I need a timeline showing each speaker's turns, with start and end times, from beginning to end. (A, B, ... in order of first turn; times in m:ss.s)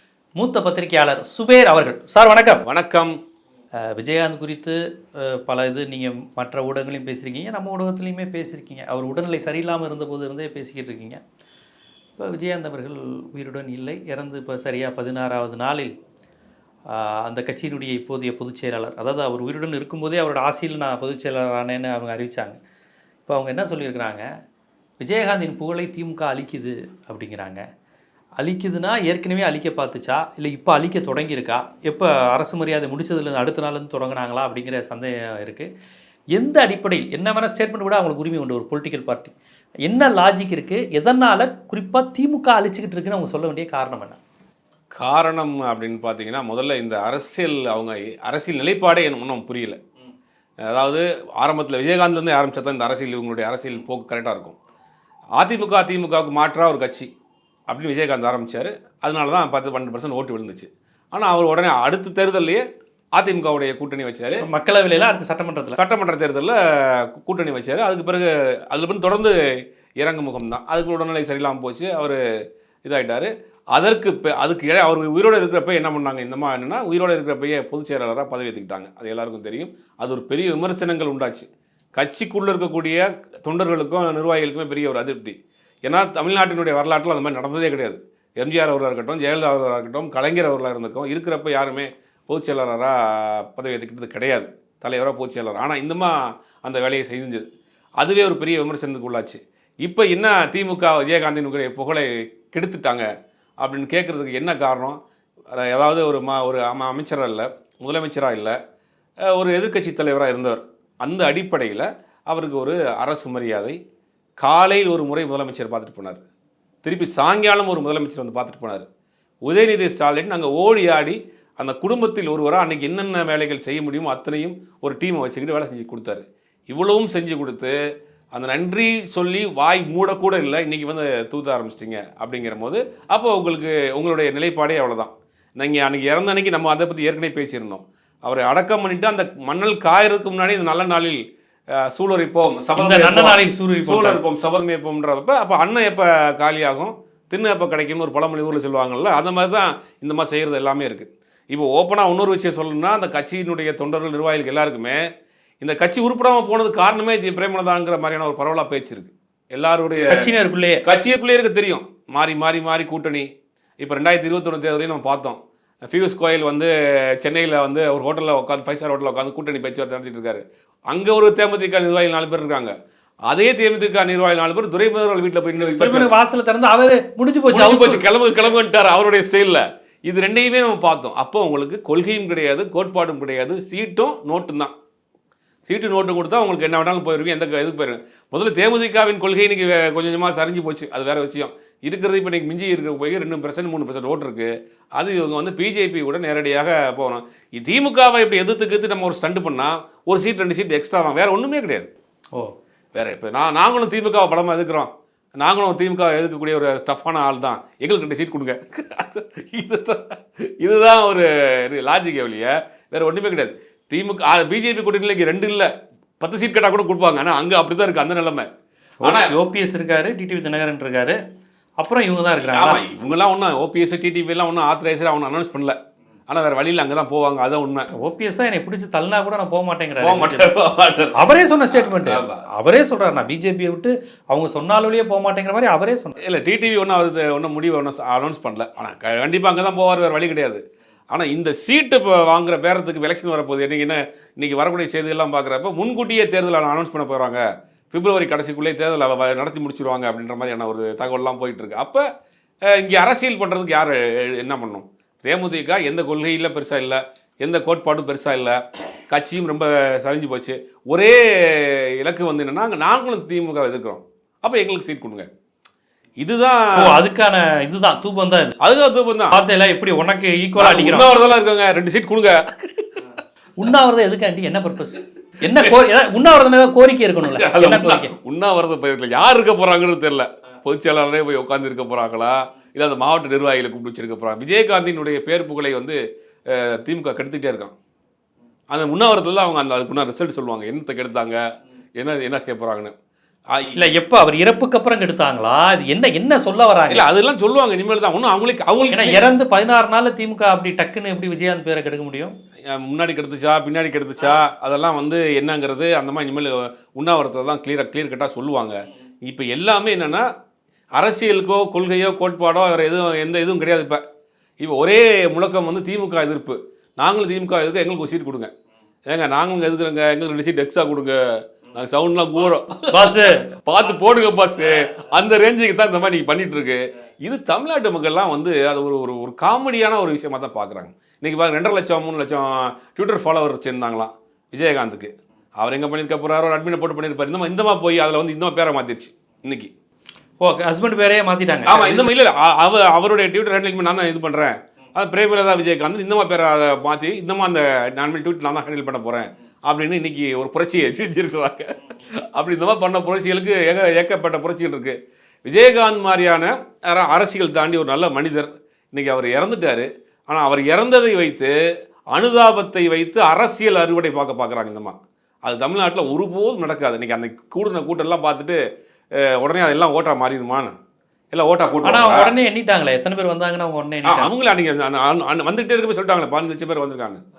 0:00.4-0:02.6 A
0:02.6-0:03.1 B
0:03.9-0:11.2 A
0:12.2-0:15.9 A
0:16.9-0:22.6 A
0:23.2-0:24.2 A
0:25.0-0:27.6 A
0:28.4-0:35.7 A
0:36.3-0:39.3 A
0:39.8-0:44.2 A
0:45.0-0:49.8 B
0:50.6-0:54.5 B
0:55.4-0:57.1 B
0:57.7-1:02.6 B
1:03.2-1:04.4 B
1:04.4-1:05.8 A
1:05.7-1:09.4 B
1:10.0-1:12.2 B
1:12.8-1:37.4 B
1:38.0-1:43.1 B
1:43.6-1:45.0 B
1:45.6-1:48.6 B
1:49.3-1:53.8 B
1:54.4-1:56.2 B
1:56.8-1:58.8 B
1:59.4-2:07.7 B
2:08.3-2:21.2 B
2:21.8-2:35.0 B
2:22.8-2:24.2 A
2:35.6-2:40.3 B
2:40.1-2:40.8 A
2:40.8-2:43.3 B
2:43.8-2:52.7 B
2:53.3-2:56.1 B
2:55.8-2:58.0 A
2:57.5-3:04.7 B
3:05.6-3:21.9 B
3:22.9-3:38.5 B
3:39.0-3:41.2 A
3:39.0-3:39.3 B
3:41.8-3:42.8 A
3:42.4-3:45.8 B
3:46.3-3:47.9 B
3:48.0-3:50.5 A
3:50.0-3:51.2 B
3:51.2-3:56.2 A
3:51.7-3:52.4 B
3:56.2-4:12.0 B
4:12.7-4:18.6 B
4:19.1-4:25.3 B
4:26.2-4:26.9 B
4:26.8-4:28.6 A
4:28.6-4:29.4 B
4:29.3-4:31.1 A
4:30.6-4:32.9 B
4:33.6-4:38.1 A
4:37.2-4:46.0 B
4:46.5-4:47.7 B
4:48.7-4:51.4 B
4:52.0-4:52.9 B
4:53.5-4:53.8 B
4:53.8-4:57.0 A
4:56.9-4:59.2 B
4:58.9-5:02.3 A
5:02.7-5:10.2 B
5:11.0-5:14.0 B
5:14.6-5:18.5 B
5:19.1-5:39.7 B
5:22.9-5:23.4 A
5:40.4-5:42.1 A
5:41.7-6:01.5 B
6:02.1-6:08.6 B
6:09.2-6:10.7 B
6:11.3-6:12.3 B
6:11.8-6:14.3 A
6:14.0-6:17.2 B